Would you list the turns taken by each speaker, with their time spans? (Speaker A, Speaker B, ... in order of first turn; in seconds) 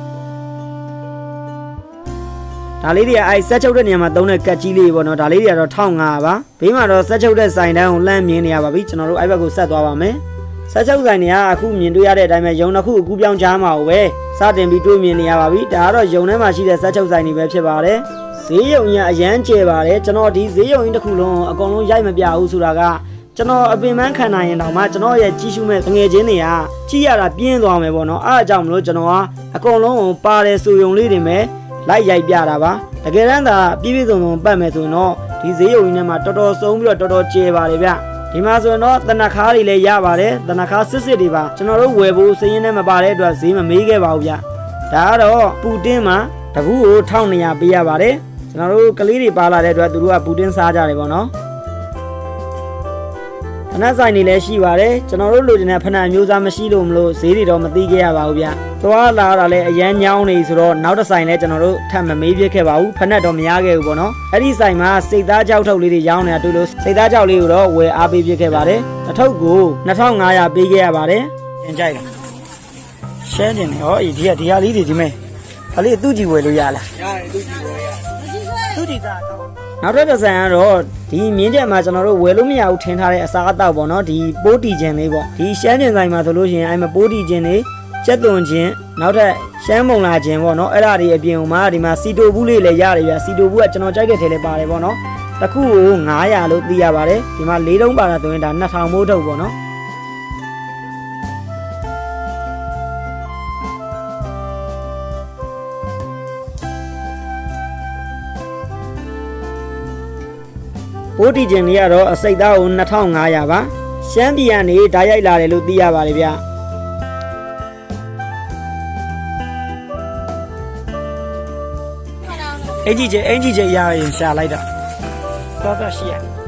Speaker A: 2.8-51.3, 53.7-72.1, 73.2-75.2, 75.7-99.5, 111.2-116.4, 122.5-124.7, 125.6-126.2